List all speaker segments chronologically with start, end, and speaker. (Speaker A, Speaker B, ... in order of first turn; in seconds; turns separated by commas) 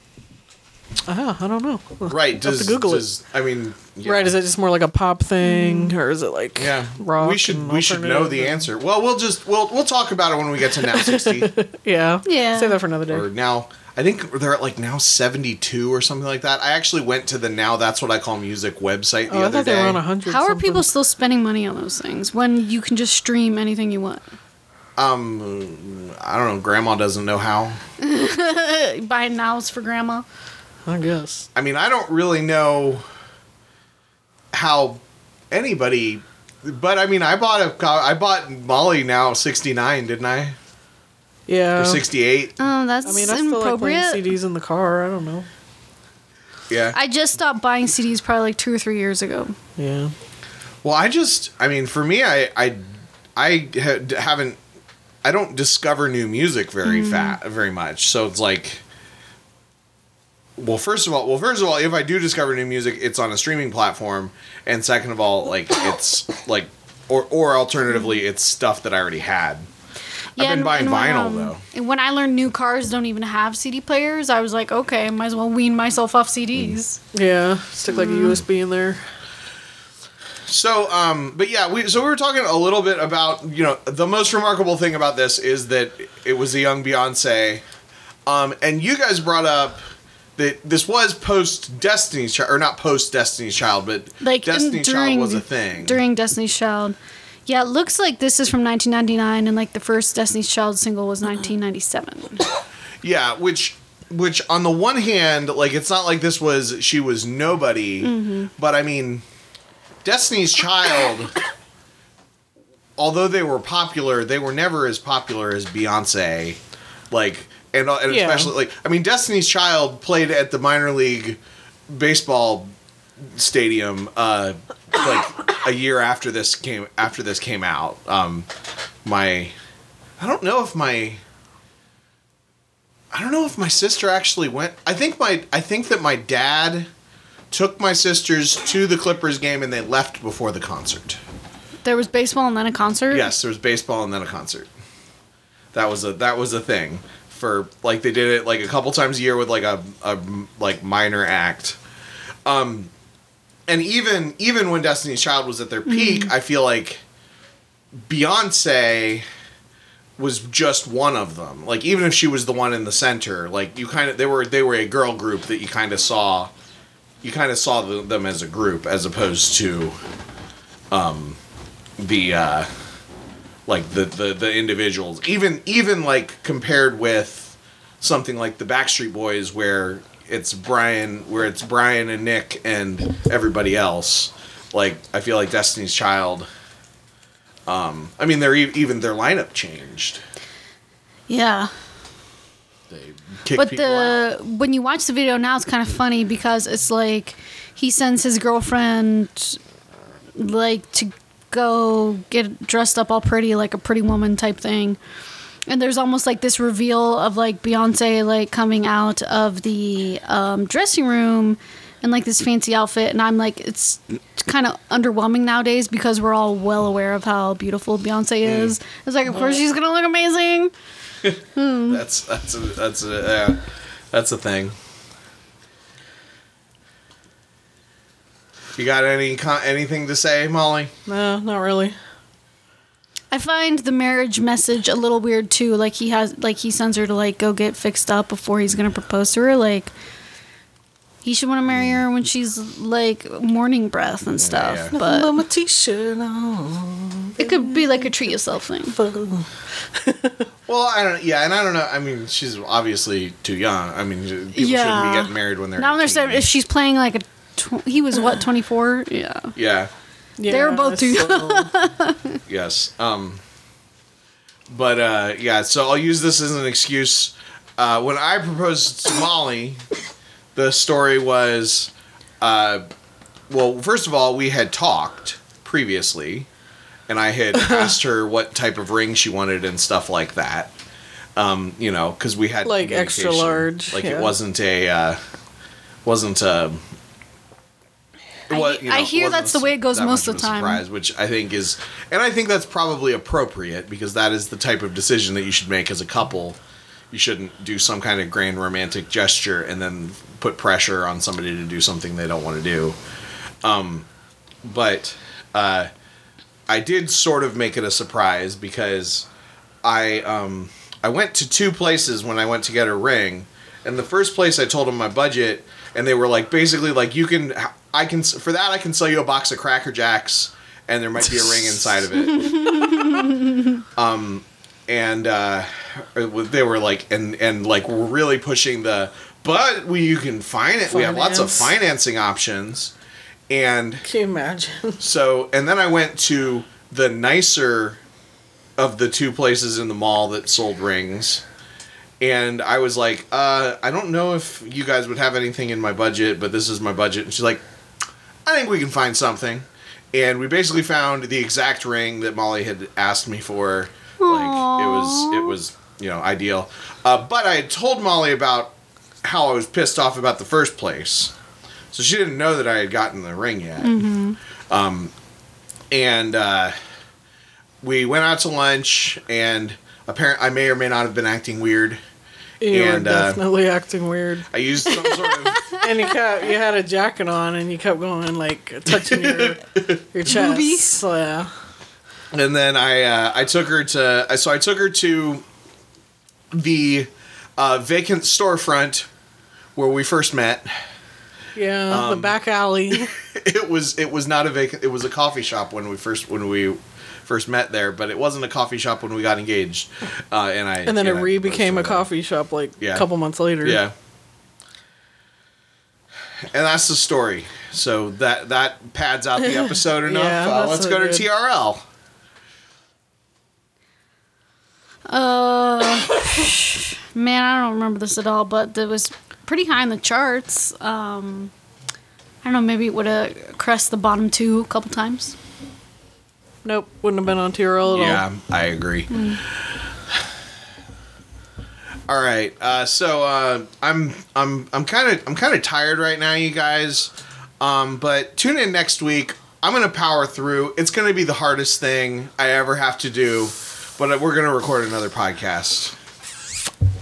Speaker A: 1.1-3.1, Speaker B: 2.1-4.3, Speaker A: 4.0-8.6, Speaker C: 5.4-5.9, Speaker B: 6.6-11.5, Speaker A: 10.8-13.3, Speaker C: 12.2-12.8, Speaker B: 13.1-20.0, Speaker A: 19.3-20.9, Speaker C: 20.2-24.2, Speaker B: 25.0-27.8, Speaker C: 28.0-30.2, Speaker A: 30.9-31.4, Speaker B: 31.5-33.0, Speaker B: 34.5-40.5, Speaker A: 41.5-42.0, Speaker B: 41.8-42.5, Speaker C: 42.6-44.2, Speaker A: 43.0-45.5, Speaker B: 46.7-47.0, Speaker C: 46.9-49.5, Speaker A: 49.8-50.1, Speaker B: 50.8-54.6, Speaker B: 55.2-58.8, Speaker C: 56.8-57.4, Speaker B: 60.6-69.7, Speaker B: 70.3-71.6, Speaker C: 70.4-77.0, Speaker A: 77.1-79.0, Speaker C: 77.9-78.4, Speaker B: 80.5-87.6, Speaker B: 88.2-89.8, Speaker B: 90.4-96.0, Speaker C: 94.2-102.4, Speaker B: 103.0-109.2, Speaker C: 108.0-108.5, Speaker B: 110.0-111.3, Speaker B: 113.0-116.6, Speaker B: 117.1-128.5, Speaker A: 118.1-118.5, Speaker B: 129.0-129.5, Speaker B: 130.2-131.2, Speaker B: 133.1-136.9, Speaker B: 137.5-141.2, Speaker C: 141.8-143.3, Speaker B: 143.1-144.7, Speaker B: 145.7-151.8, Speaker B: 152.4-152.9, Speaker B: 153.7-157.0, Speaker C: 155.9-156.3, Speaker B: 158.1-159.2, Speaker B: 160.2-166.5, Speaker B: 167.2-169.9, Speaker B: 170.9-171.4, Speaker B: 172.0-172.7, Speaker B: 173.7-186.5, Speaker B: 187.7-190.2, Speaker C: 191.3-191.7, Speaker B: 192.9-194.2, Speaker C: 193.5-199.6, Speaker C: 200.4-205.0, Speaker C: 205.7-220.7, Speaker B: 218.4-218.7, Speaker B: 221.2-223.6, Speaker C: 221.5-222.0, Speaker B: 224.1-224.7, Speaker B: 228.8-230.9, Speaker A: 231.1-231.9, Speaker C: 233.3-239.9, Speaker C: 241.2-245.3, Speaker B: 241.7-242.0, Speaker B: 244.4-244.9, Speaker A: 244.9-248.1, Speaker C: 247.4-248.9, Speaker A: 248.9-250.4, Speaker B: 250.7-256.5, Speaker C: 254.5-259.5, Speaker B: 259.6-259.9, Speaker A: 260.4-261.7, Speaker C: 260.5-262.4, Speaker B: 262.5-263.4, Speaker B: 264.7-269.8, Speaker B: 270.5-272.9, Speaker B: 273.5-276.5, Speaker B: 277.1-280.7, Speaker A: 277.6-277.9, Speaker B: 281.4-285.2, Speaker A: 282.6-284.3, Speaker B: 286.0-286.8, Speaker B: 288.5-296.6, Speaker C: 288.5-290.8, Speaker B: 297.1-303.0, Speaker B: 303.6-304.1, Speaker B: 304.6-305.9, Speaker B: 306.7-309.3, Speaker B: 309.8-322.8, Speaker A: 321.2-321.8, Speaker C: 322.5-323.6, Speaker A: 322.7-323.1, Speaker B: 323.9-332.9, Speaker A: 330.9-331.7, Speaker B: 333.5-334.0, Speaker A: 334.0-335.0, Speaker B: 335.0-338.0, Speaker B: 338.8-341.4, Speaker B: 342.2-347.6, Speaker B: 348.4-361.3, Speaker C: 354.2-355.5, Speaker B: 361.9-364.0, Speaker C: 363.8-364.4, Speaker B: 364.7-365.1, Speaker B: 365.9-366.7, Speaker B: 367.8-372.0, Speaker A: 372.6-374.5, Speaker B: 372.7-373.4, Speaker B: 374.5-375.7, Speaker C: 375.0-375.9, Speaker A: 375.8-381.5, Speaker B: 378.9-380.0, Speaker C: 380.2-380.9, Speaker B: 382.3-385.4, Speaker B: 386.5-389.1, Speaker B: 389.8-390.7, Speaker A: 391.5-393.1, Speaker B: 391.9-392.4, Speaker B: 392.9-402.1, Speaker A: 400.9-403.8, Speaker B: 402.8-403.1, Speaker B: 403.6-403.9, Speaker B: 406.5-411.8, Speaker A: 409.4-411.2, Speaker C: 415.1-421.5, Speaker C: 422.4-425.4, Speaker A: 426.6-428.2, Speaker B: 427.9-429.1, Speaker C: 429.1-429.4, Speaker B: 432.1-445.9